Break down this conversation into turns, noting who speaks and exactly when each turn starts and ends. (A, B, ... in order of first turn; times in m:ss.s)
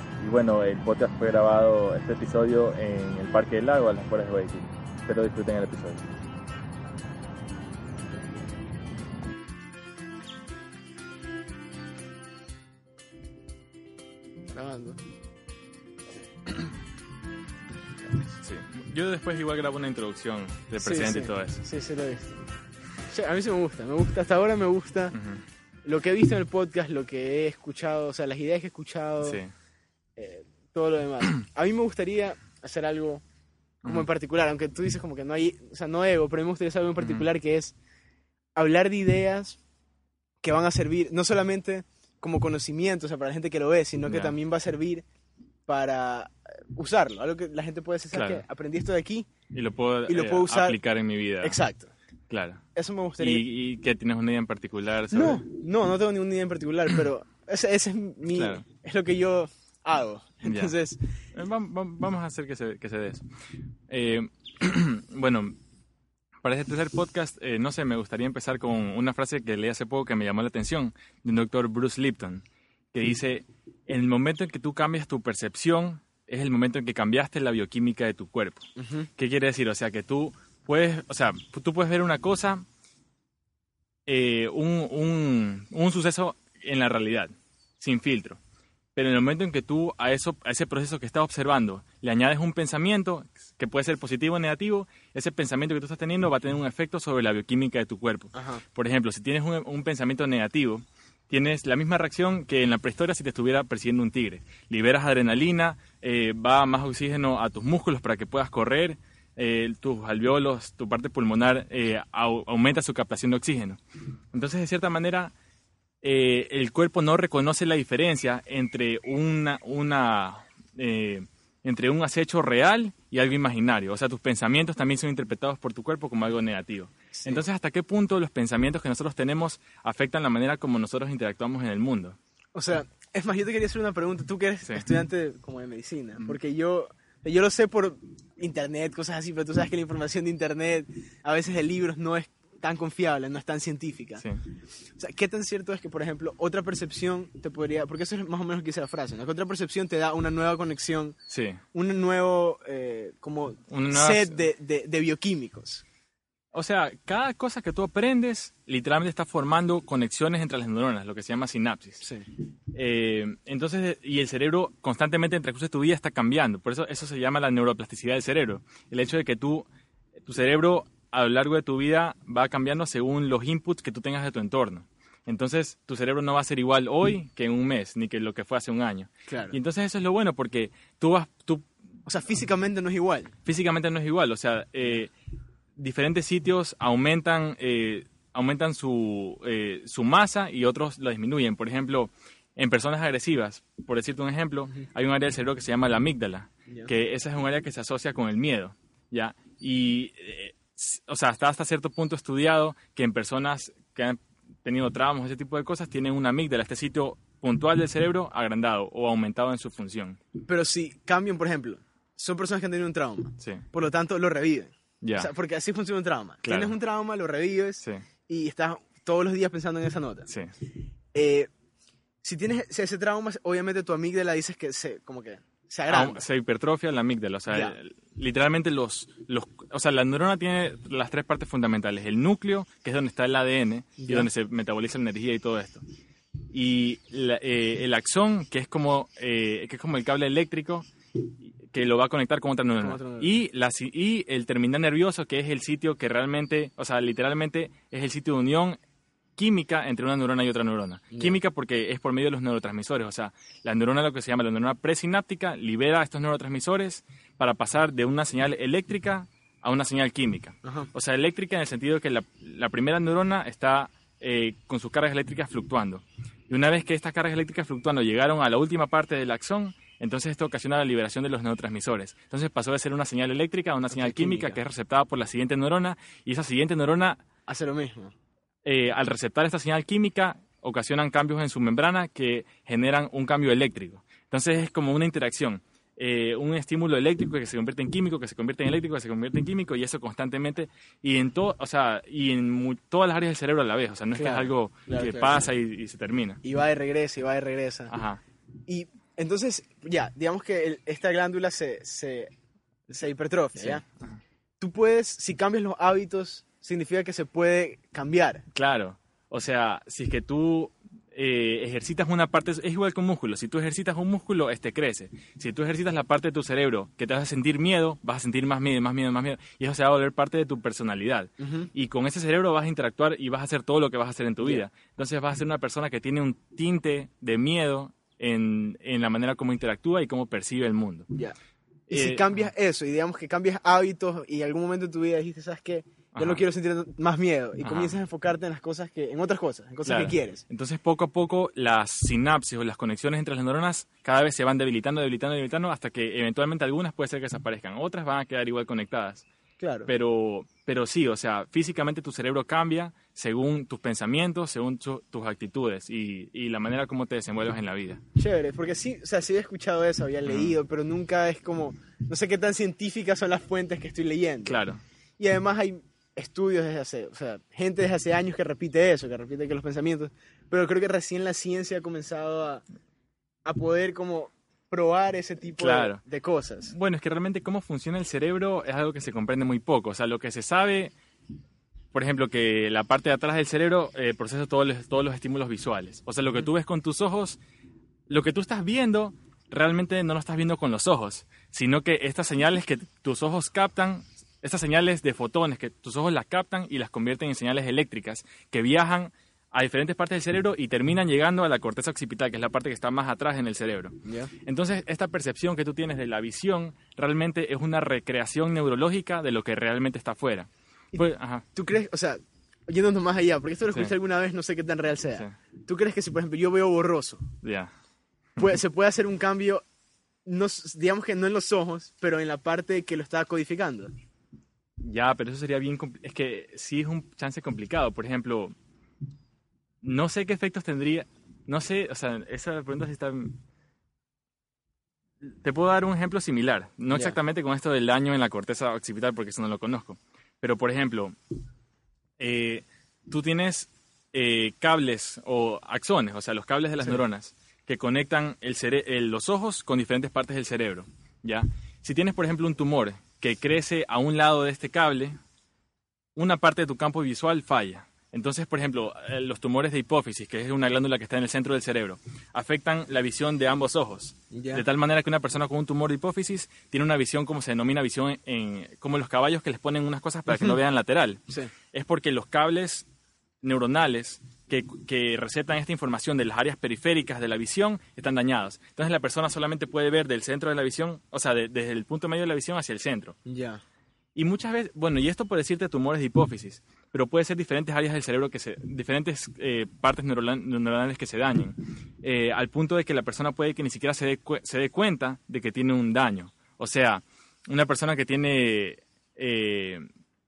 0:00.2-0:06.0 A
0:14.5-0:15.0 B
0:18.4-0:21.6 C
0:20.8-0:22.4 B
0:23.1-0:25.1 B
0:25.1-0:25.4 C
0:25.8-0:29.4 B
0:29.2-0:29.5 C
0:30.2-0:33.2 B
0:33.8-0:37.7 B
0:37.0-0:37.2 C
0:38.6-0:39.6 B
0:40.4-0:45.0 B
0:44.0-0:44.4 C
0:45.6-0:49.3 B
0:48.1-0:48.4 C
0:49.5-0:51.6 C
0:50.1-0:50.8 B
0:51.4-0:51.9 B
0:52.3-0:52.6 C
0:52.7-0:53.4 B
0:53.2-0:55.4 C
0:55.1-1:01.0 B
0:58.3-0:58.6 C
1:00.4-1:00.7 C
1:01.3-1:03.2 C
1:03.9-1:05.6 C
1:06.4-1:22.6 C
1:18.8-1:19.1 B
1:24.0-1:28.4 C
1:29.0-1:53.8 C
1:38.3-1:38.6 B
1:54.3-1:55.3 C
1:56.0-2:12.2 C
2:07.1-2:07.4 B
2:12.5-2:24.2 B
2:25.0-2:31.2 B
2:31.3-2:31.6 C
2:31.7-2:35.8 B
2:33.7-2:34.4 C
2:36.5-2:42.0 C
2:42.0-2:42.3 B
2:42.7-2:49.7 C
2:50.2-3:01.7 C
2:59.3-2:59.6 B
3:02.0-3:03.3 B
3:03.4-3:05.1 C
3:05.8-3:30.2 C
3:30.5-3:40.3 B
3:35.0-3:35.3 C
3:36.4-3:36.7 C
3:41.1-3:41.5 B
3:42.2-3:46.2 B
3:45.9-3:55.8 C
3:47.5-3:47.8 B
3:54.0-3:54.3 B
3:56.5-4:00.9 C
4:01.4-4:08.8 C
4:02.8-4:03.3 B
4:09.4-4:37.2 C
4:11.1-4:11.4 B
4:20.6-4:20.9 B
4:33.9-4:34.6 B
4:37.5-4:38.1 B
4:38.6-4:56.4 C
4:54.1-4:55.5 B
4:56.4-4:57.9 B
4:57.9-4:58.2 C
4:58.7-5:02.3 B
5:02.9-5:03.8 B
5:03.6-5:04.2 C
5:04.6-5:08.4 B
5:08.5-5:31.1 C
5:21.4-5:21.7 B
5:31.9-5:32.5 C
5:31.9-5:40.4 B
5:36.1-5:36.4 C
5:37.6-5:38.0 C
5:39.8-5:49.2 C
5:49.6-5:49.9 B
5:49.8-5:58.0 C
5:58.2-6:04.6 B
6:00.2-6:00.5 C
6:04.4-6:04.8 C
6:05.2-6:12.6 B
6:13.4-6:16.7 B
6:15.6-6:16.0 C
6:16.7-6:20.9 C
6:21.9-6:27.4 C
6:28.1-6:51.4 C
6:44.0-6:44.3 B
6:50.9-6:57.3 B
6:57.4-6:57.7 C
6:58.4-6:59.6 B
7:00.2-7:03.9 B
7:04.8-7:08.5 C
7:09.8-7:13.4 C
7:15.2-7:21.2 C
7:16.9-7:17.2 B
7:22.2-7:35.2 C
7:36.2-7:52.8 C
7:44.3-7:44.6 B
7:50.3-7:50.6 B
7:53.4-8:03.2 C
8:03.2-8:03.6 B
8:04.1-8:19.8 C